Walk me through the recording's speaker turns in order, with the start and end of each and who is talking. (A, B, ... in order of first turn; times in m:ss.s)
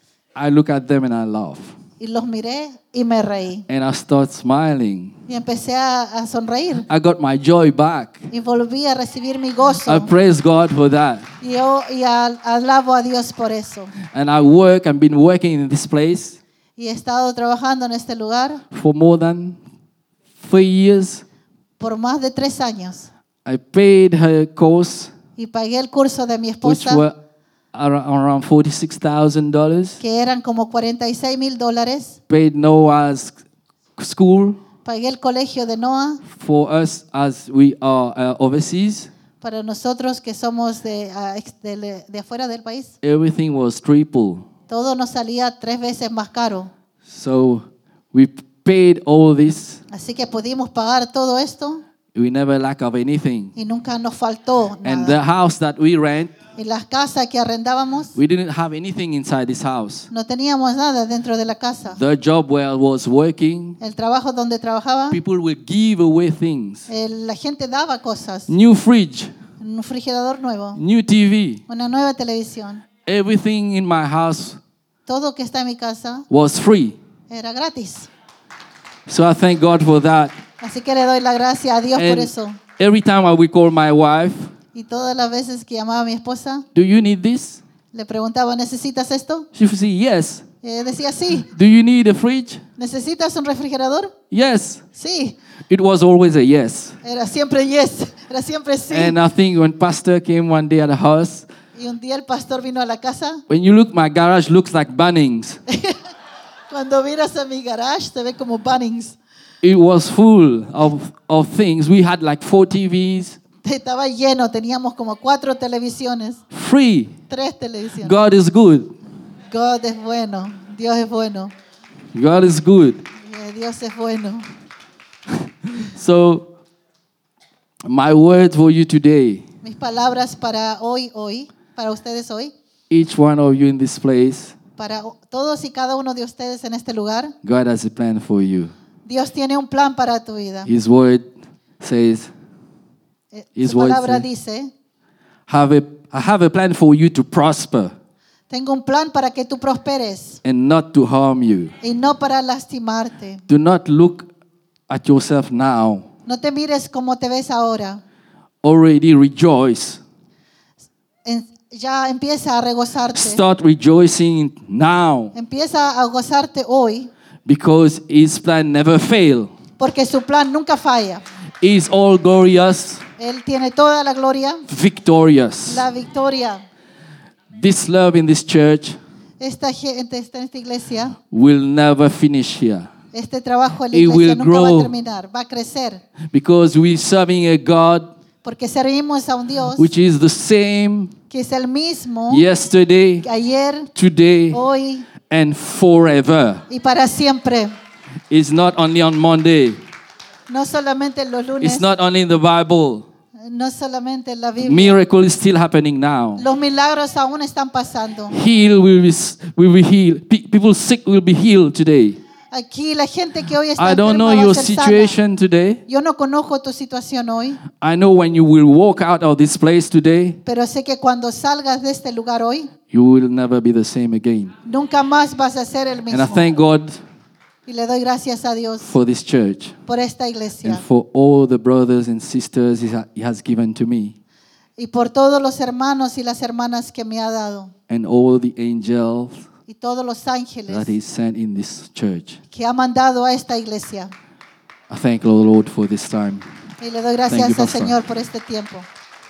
0:00.4-0:01.8 A
0:02.0-0:03.7 B
0:03.7-0:05.2 A
0:05.3-0:06.9 B
0:06.9-0:08.3 A
0:08.3-0:10.1 B
0:09.9-0:11.3 A
0:11.4-0:13.9 B
0:14.1-0:16.4 A
0:16.8-0:18.6 B
0:18.7-0:19.6 A
0:20.4-0:21.2 A
0:21.8-0:23.1 B
0:23.4-0:25.1 A
0:25.4-0:27.0 B
0:26.6-0:27.2 A
0:27.7-0:30.0 A
0:30.0-0:32.2 B
0:32.3-0:33.4 A
0:34.0-0:34.6 A
0:34.8-0:36.2 B
0:36.2-0:39.1 A
0:39.4-0:43.0 B
0:43.0-0:44.5 A
0:44.7-0:46.7 B
0:47.0-0:49.8 A
0:49.9-0:51.8 B
0:52.1-0:53.6 A
0:53.6-0:55.2 B
0:54.8-0:56.3 A
0:56.6-0:58.2 B
0:58.2-1:00.1 A
1:00.1-1:02.0 B
1:01.9-1:03.8 A
1:03.8-1:05.2 B
1:05.1-1:06.9 A
1:06.9-1:08.5 B
1:08.5-1:09.3 A
1:09.6-1:10.8 B
1:10.8-1:11.6 A
1:11.7-1:12.8 B
1:13.1-1:14.6 A
1:15.1-1:16.3 B
1:16.3-1:17.0 A
1:17.3-1:18.1 B
1:19.1-1:20.4 A
1:20.6-1:22.6 B
1:22.0-1:24.5 A
1:24.7-1:26.7 B
1:26.8-1:27.6 A
1:27.9-1:29.5 B
1:29.5-1:30.4 A
1:30.6-1:31.5 B
1:31.5-1:32.6 A
1:32.8-1:34.2 B
1:34.3-1:34.8 A
1:35.0-1:35.4 B
1:35.7-1:37.0 A
1:37.0-1:39.2 B
1:38.9-1:41.5 A
1:41.8-1:43.4 B
1:43.5-1:45.6 A
1:45.7-1:46.1 B
1:46.7-1:49.2 B
1:49.6-1:53.4 A
1:53.6-1:56.4 B
1:56.5-1:57.2 A
1:57.3-1:58.1 B
1:58.0-1:58.9 A
1:59.5-2:01.5 B
2:02.1-2:03.0 A
2:03.2-2:04.5 B
2:05.7-2:06.5 A
2:07.8-2:09.5 A
2:09.6-2:12.5 B
2:12.9-2:14.6 A
2:14.8-2:17.4 B
2:17.4-2:18.7 A
2:19.0-2:20.7 B
2:20.6-2:21.3 A
2:21.8-2:22.3 A
2:23.3-2:24.7 B
2:23.6-2:24.3 A
2:25.5-2:28.0 A
2:28.5-2:30.4 B
2:30.4-2:31.8 A
2:31.8-2:33.4 B
2:33.5-2:34.3 A
2:34.9-2:36.1 A
2:36.3-2:38.0 B
2:38.6-2:40.0 A
2:41.2-2:43.4 B
2:43.1-2:45.3 A
2:45.3-2:47.1 B
2:47.5-2:49.5 A
2:49.8-2:51.2 B
2:51.6-2:53.1 A
2:53.2-2:54.7 B
2:54.7-2:55.9 A
2:55.7-2:56.6 B
2:57.5-2:59.0 A
2:59.4-3:01.2 B
3:01.3-3:02.9 A
3:03.1-3:06.0 B
3:03.9-3:04.9 A
3:06.3-3:08.1 A
3:08.4-3:09.9 B
3:09.8-3:11.1 A
3:11.3-3:12.5 B
3:12.3-3:13.3 A
3:13.2-3:13.9 B
3:13.9-3:14.6 A
3:14.5-3:15.1 B
3:15.2-3:16.7 A
3:16.7-3:17.7 B
3:18.3-3:19.8 A
3:20.5-3:21.8 B
3:21.6-3:23.1 A
3:23.4-3:25.0 B
3:24.6-3:26.4 A
3:26.4-3:28.4 B
3:28.3-3:32.2 A
3:32.5-3:35.2 B
3:33.8-3:35.8 A
3:35.9-3:37.6 B
3:37.8-3:40.4 A
3:40.4-3:42.7 B
3:42.9-3:44.6 A
3:44.6-3:46.6 B
3:46.1-3:47.0 A
3:47.7-3:49.0 B
3:48.8-3:49.8 A
3:49.9-3:50.8 B
3:50.6-3:54.2 A
3:54.8-3:57.7 B
3:57.9-3:59.5 A
3:59.7-4:00.9 B
4:00.7-4:02.4 A
4:02.5-4:04.1 B
4:04.9-4:06.6 A
4:06.8-4:08.9 B
4:07.3-4:08.0 A